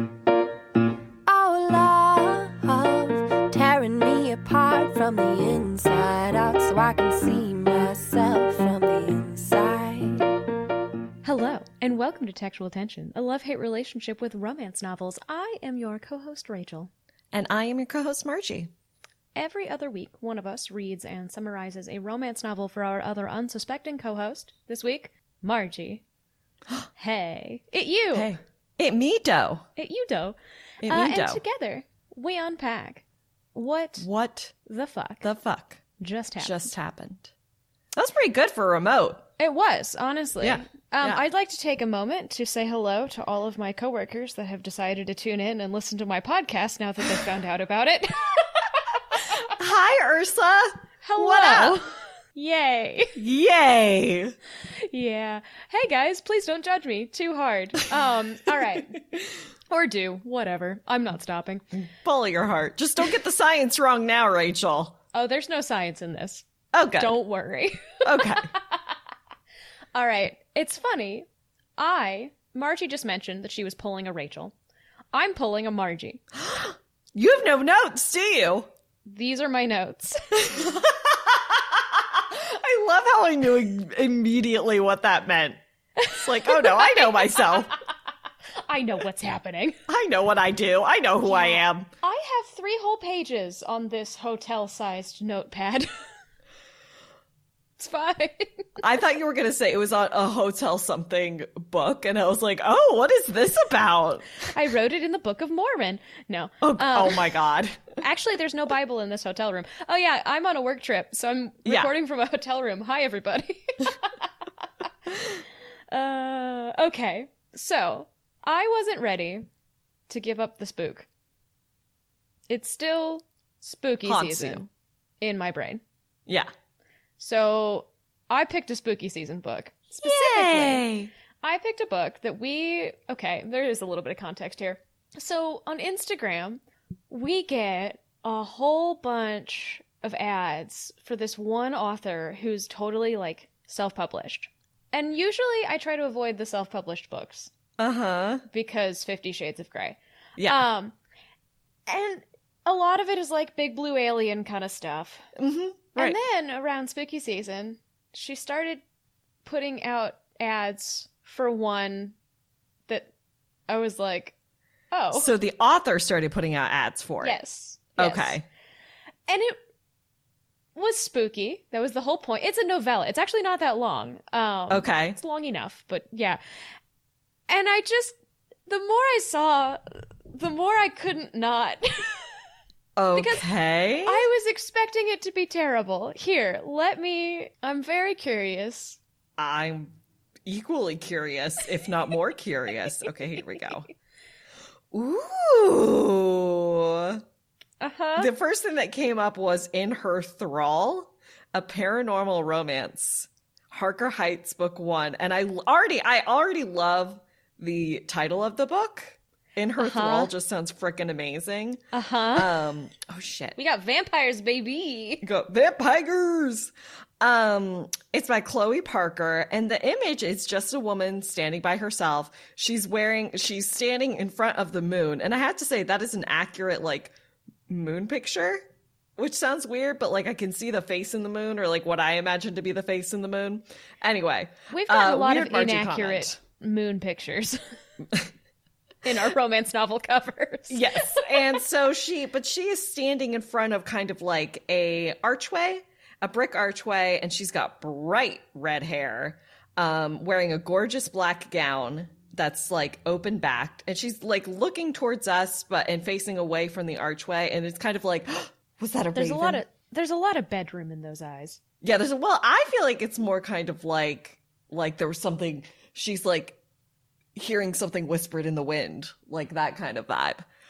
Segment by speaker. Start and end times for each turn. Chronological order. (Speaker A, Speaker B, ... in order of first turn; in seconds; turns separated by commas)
Speaker A: 1.3-10.2, Speaker B: 11.2-16.9, Speaker C: 17.3-18.7, Speaker B: 19.3-26.0, Speaker B: 26.9-28.3, Speaker C: 28.1-29.6, Speaker B: 29.8-33.0, Speaker C: 30.8-31.4, Speaker B: 33.5-34.1, Speaker C: 34.0-34.5, Speaker B: 34.6-35.3, Speaker C: 35.2-35.8, Speaker B: 36.0-36.7, Speaker C: 36.4-37.3, Speaker C: 37.9-39.2, Speaker B: 39.4-49.5, Speaker C: 40.4-41.2, Speaker C: 49.5-51.8, Speaker B: 51.0-53.2, Speaker C: 53.1-54.3, Speaker B: 54.7-59.0, Speaker B: 59.7-61.6, Speaker C: 61.8-65.0, Speaker B: 65.1-66.4, Speaker C: 66.7-67.2, Speaker B: 67.0-68.9, Speaker C: 68.0-68.5, Speaker B: 69.9-74.5, Speaker B: 75.1-76.2, Speaker C: 76.4-78.7, Speaker B: 79.0-80.7, Speaker C: 80.4-85.6, Speaker B: 86.0-87.6, Speaker C: 86.1-87.7, Speaker B: 88.6-89.8, Speaker C: 89.9-91.9, Speaker B: 91.2-95.9, Speaker B: 97.8-98.7, Speaker C: 98.8-104.3, Speaker B: 104.4-107.3, Speaker C: 106.6-108.0, Speaker B: 108.0-114.3, Speaker C: 111.6-111.9, Speaker B: 114.8-119.5, Speaker B: 120.1-121.1, Speaker B: 122.5-124.7, Speaker C: 124.0-124.7, Speaker B: 125.2-125.8, Speaker B: 127.2-130.8, Speaker C: 130.0-131.1, Speaker B: 131.4-147.5, Speaker C: 147.8-148.4, Speaker B: 148.5-150.9, Speaker C: 150.4-150.6, Speaker B: 151.9-155.2, Speaker C: 155.3-156.2, Speaker B: 155.9-158.8, Speaker B: 159.4-162.1, Speaker B: 163.7-164.3, Speaker B: 164.9-165.3, Speaker C: 165.1-167.4, Speaker B: 167.2-168.4, Speaker C: 167.9-168.4, Speaker B: 169.3-169.6, Speaker B: 170.7-176.4, Speaker C: 174.7-175.2, Speaker B: 177.5-178.2, Speaker B: 178.7-182.2, Speaker C: 182.9-184.2, Speaker B: 183.1-183.5, Speaker B: 184.0-189.0, Speaker C: 189.4-189.9, Speaker C: 190.4-193.9, Speaker C: 194.9-197.2, Speaker B: 197.8-198.3, Speaker C: 198.2-211.8, Speaker B: 209.8-210.3, Speaker B: 211.9-212.5, Speaker C: 212.3-213.6, Speaker B: 213.6-215.2, Speaker C: 215.2-227.1, Speaker C: 227.7-228.6, Speaker C: 229.2-236.4, Speaker B: 234.7-237.6, Speaker B: 239.0-241.4, Speaker C: 240.7-259.6, Speaker B: 259.1-261.6, Speaker C: 261.8-266.6, Speaker C: 267.3-270.4